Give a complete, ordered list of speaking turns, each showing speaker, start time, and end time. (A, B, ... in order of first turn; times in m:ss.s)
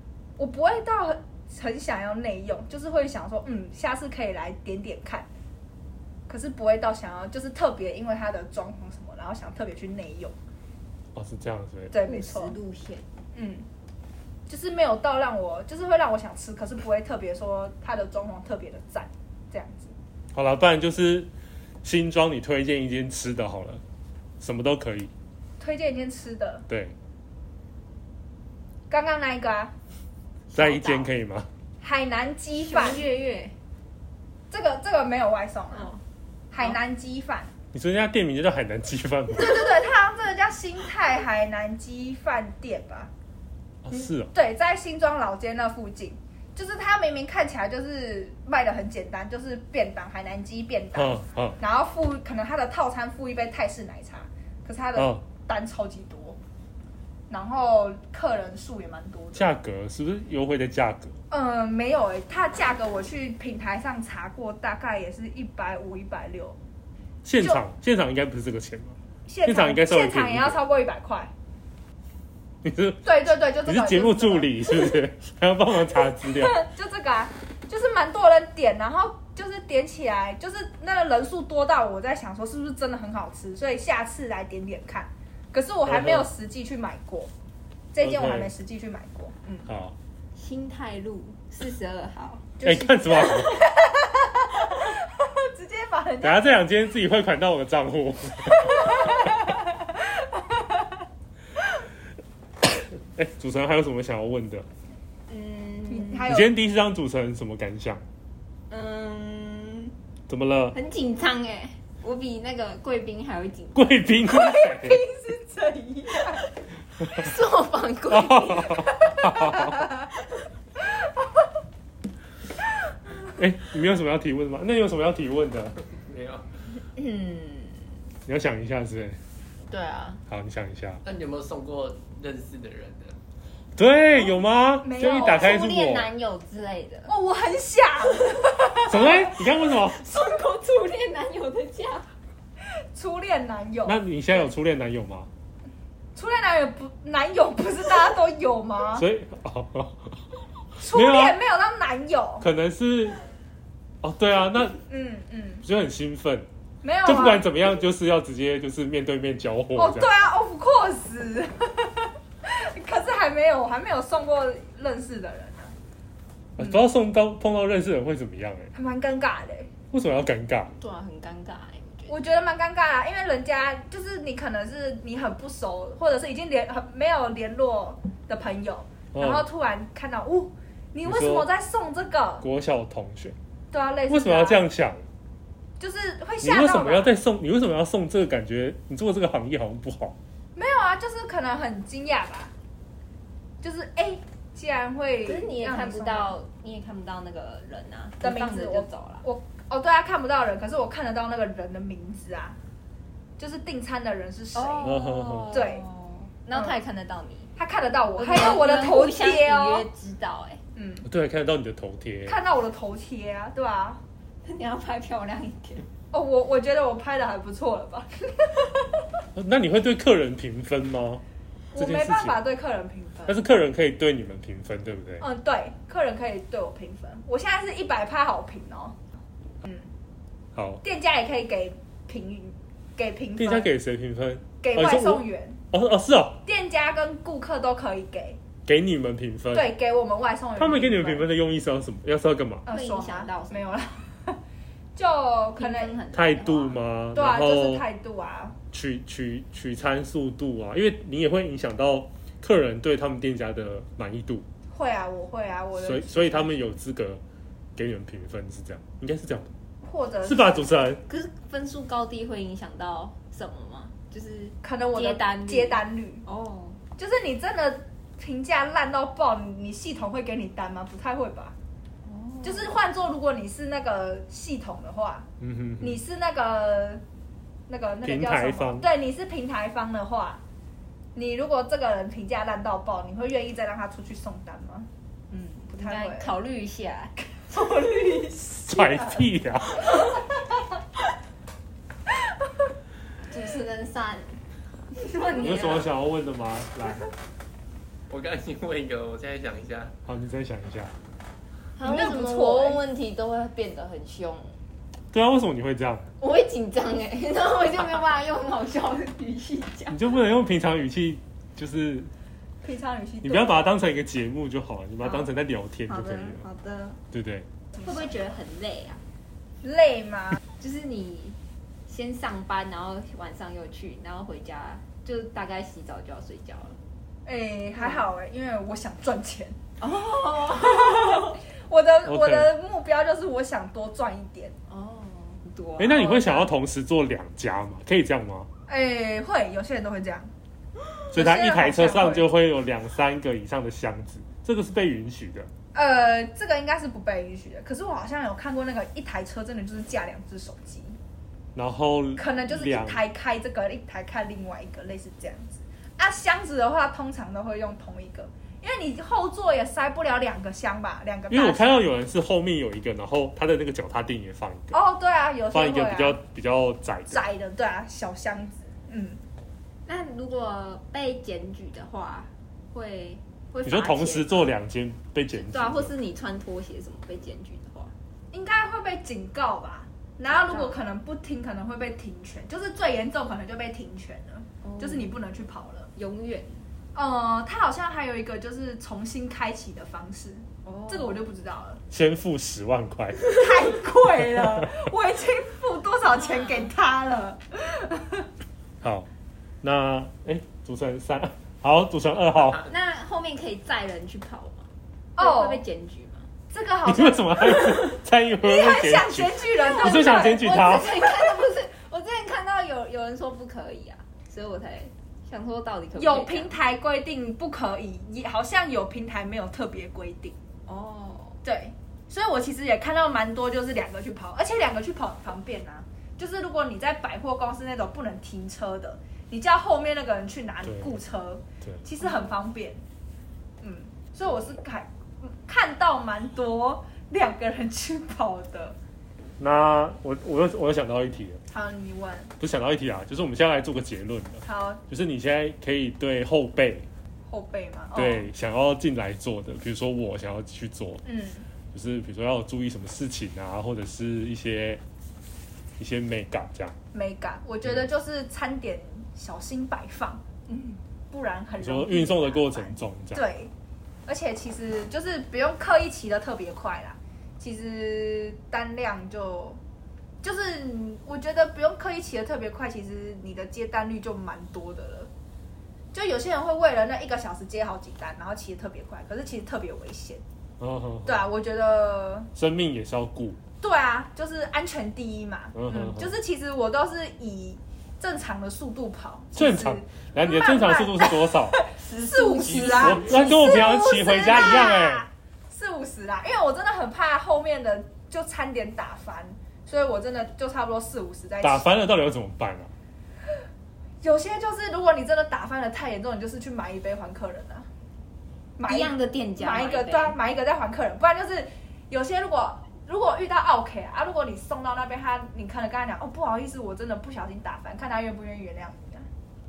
0:00.4-0:05.3 A
0:06.3-0:10.4 A
0:11.2-0:11.9 B
0:11.9-0:12.6 A
0:12.0-0:13.0 C
0:13.3-0:13.7 A
0:14.5-0:19.9 A
0:20.3-0:21.3 B
0:21.8-0:23.8 B
0:24.4-0:25.1 B
0:25.6-0:26.6 A
0:26.7-0:26.9 B
0:28.9-0:29.7 A
0:30.5-0:31.1 C
0:30.5-0:31.5 B
0:31.8-0:33.1 A
0:32.6-0:33.6 C
0:34.5-0:35.9 A
0:35.7-0:36.0 C
0:36.5-0:37.5 A
0:37.7-0:39.6 B
0:39.3-0:43.1 A
0:43.8-0:44.3 B
0:44.3-0:56.4 A
0:51.0-0:51.6 B
0:57.3-0:59.5 A
0:59.4-1:01.2 B
1:01.3-1:06.6 A
1:07.2-1:10.6 B
1:09.3-1:11.3 A
1:12.6-1:16.6 B
1:13.0-1:15.0 A
1:15.8-1:27.3 A
1:25.9-1:26.3 B
1:27.9-1:29.7 A
1:28.0-1:28.5 B
1:29.7-1:30.0 B
1:30.4-1:32.5 C
1:32.6-1:36.6 A
1:32.6-1:33.5 B
1:33.2-1:33.6 C
1:36.2-1:39.2 B
1:38.8-1:41.0 A
1:43.1-1:44.7 B
1:45.3-1:46.3 C
1:45.9-1:46.5 A
1:46.3-1:48.0 B
1:48.7-1:49.9 C
1:50.3-1:50.8 B
1:50.7-1:54.0 C
1:53.8-1:55.0 B
1:54.3-1:56.5 A
1:57.0-1:58.8 C
1:58.1-1:59.8 B
1:58.8-1:59.9 A
2:03.3-2:05.7 B
2:06.0-2:06.5 D
2:07.0-2:07.9 C
2:08.3-2:09.2 B
2:09.7-2:10.2 C
2:10.3-2:11.0 B
2:11.0-2:13.2 D
2:13.8-2:16.1 B
2:14.8-2:15.5 A
2:15.2-2:17.1 C
2:17.1-2:19.4 A
2:18.8-2:20.0 B
2:19.6-2:22.1 C
2:22.9-2:24.0 A
2:23.9-2:25.3 B
2:26.2-2:29.0 A
2:29.0-2:30.1 B
2:30.8-2:31.4 B
2:30.8-2:32.5 A
2:32.4-2:33.2 B
2:34.0-2:34.8 B
2:34.9-2:35.7 A
2:35.6-2:36.5 B
2:36.8-2:37.4 A
2:37.0-2:40.1 B
2:39.8-2:45.8 A
2:46.6-2:48.7 B
2:48.7-2:49.7 A
2:49.9-2:50.7 B
2:50.8-2:52.1 C
2:52.1-3:02.5 A
2:59.1-2:59.4 B
3:01.0-3:01.5 B
3:02.4-3:03.4 B
3:03.7-3:04.6 A
3:04.1-3:05.1 B
3:05.8-3:07.1 A
3:06.4-3:10.2 B
3:10.6-3:12.5 A
3:13.6-3:16.3 A
3:15.2-3:19.2 C
3:18.2-3:22.6 A
3:23.4-3:25.8 A
3:24.6-3:27.5 C
3:24.8-3:25.6 B
3:27.6-3:29.9 A
3:28.2-3:30.6 C
3:30.8-3:31.0 A
3:31.0-3:32.4 B
3:32.3-3:34.0 A
3:34.4-3:35.9 C
3:36.1-3:39.0 A
3:39.4-3:41.2 B
3:41.7-3:43.4 A
3:41.8-3:42.4 B
3:43.3-3:45.2 B
3:45.2-3:49.0 A
3:49.6-3:49.9 A
3:50.6-3:50.8 B
3:50.8-3:53.7 A
3:53.4-3:56.4 B
3:54.6-3:55.6 A
3:56.4-3:58.4 A
3:58.7-3:59.7 B
3:59.5-4:01.3 A
4:00.6-4:02.7 B
4:02.6-4:04.4 A
4:02.7-4:03.7 C
4:05.0-4:06.0 A
4:05.6-4:06.8 C
4:06.1-4:07.8 B
4:07.2-4:08.6 A
4:08.7-4:14.5 B
4:14.7-4:16.5 A
4:15.8-4:17.2 B
4:17.8-4:19.5 B
4:19.8-4:20.8 A
4:20.2-4:21.0 B
4:21.1-4:26.8 C
4:24.6-4:26.2 A
4:27.0-4:31.6 A
4:32.0-4:32.8 C
4:32.4-4:35.3 A
4:35.4-4:36.0 B
4:35.8-4:37.0 A
4:37.7-4:40.4 A
4:38.0-4:38.9 B
4:41.2-4:44.9 A
4:45.3-4:47.8 C
4:45.7-4:46.3 A
4:47.4-4:49.3 A
4:48.7-4:50.0 B
4:53.3-4:55.9 C
4:55.4-4:57.1 B
4:58.1-4:59.9 D
5:00.1-5:00.9 B
5:01.8-5:04.6 C
5:01.8-5:02.8 A
5:05.1-5:06.0 B
5:06.2-5:10.1 C
5:09.9-5:12.1 B
5:12.6-5:13.6 A
5:13.2-5:16.4 B
5:15.0-5:15.3 C
5:15.9-5:17.0 C
5:17.1-5:17.5 B
5:17.8-5:19.0 C
5:19.6-5:20.4 A
5:20.6-5:26.8 C
5:27.3-5:29.6 A
5:27.8-5:28.0 C
5:29.8-5:31.4 C
5:30.6-5:34.5 A
5:32.1-5:32.5 B
5:34.7-5:36.1 C
5:35.8-5:38.5 B
5:35.9-5:36.5 A
5:38.7-5:40.3 A
5:41.1-5:42.3 A
5:41.1-5:45.5 B
5:45.7-5:51.0 A
5:51.6-5:53.0 B
5:52.2-6:01.9 A
6:01.3-6:04.8 B
6:04.7-6:06.2 A
6:05.5-6:07.2 B
6:07.1-6:09.2 A
6:09.9-6:14.5 C
6:13.6-6:15.9 B
6:15.3-6:17.9 C
6:18.3-6:25.9 A
6:20.3-6:20.8 C
6:24.6-6:25.1 C
6:26.0-6:26.7 C
6:26.9-6:31.8 A
6:30.6-6:31.2 C
6:31.9-6:33.4 B
6:33.3-6:38.3 A
6:34.3-6:34.7 B
6:36.3-6:36.7 C
6:38.8-6:39.1 B
6:39.6-6:42.7 B
6:42.6-6:46.3 C
6:45.2-6:45.6 A
6:46.5-6:47.8 A
6:46.8-6:51.0 B
6:48.4-6:51.0 A
6:49.7-6:56.5 C
6:56.0-7:00.4 A
7:00.7-7:01.4 C
7:01.4-7:12.8 A
7:13.6-7:18.8 A
7:19.4-7:21.4 B
7:21.5-7:22.4 A
7:22.4-7:26.9 B
7:24.4-7:24.8 A
7:27.3-7:28.3 A
7:28.0-7:31.0 B
7:31.0-7:31.5 A
7:31.7-7:34.8 B
7:35.8-7:36.7 B
7:36.9-7:43.5 A
7:41.6-7:43.2 B
7:44.1-7:49.6 A
7:50.2-7:55.1 A
7:55.9-8:00.2 A
8:00.6-8:01.2 B
8:01.1-8:02.3 A
8:02.4-8:03.4 B
8:03.6-8:21.7 A
8:05.6-8:06.1 B
8:09.3-8:11.6 B
8:11.8-8:13.8 C
8:12.8-8:15.1 B
8:21.4-8:22.7 B
8:24.0-8:27.7 A
8:28.6-8:39.1 A
8:28.7-8:30.2 C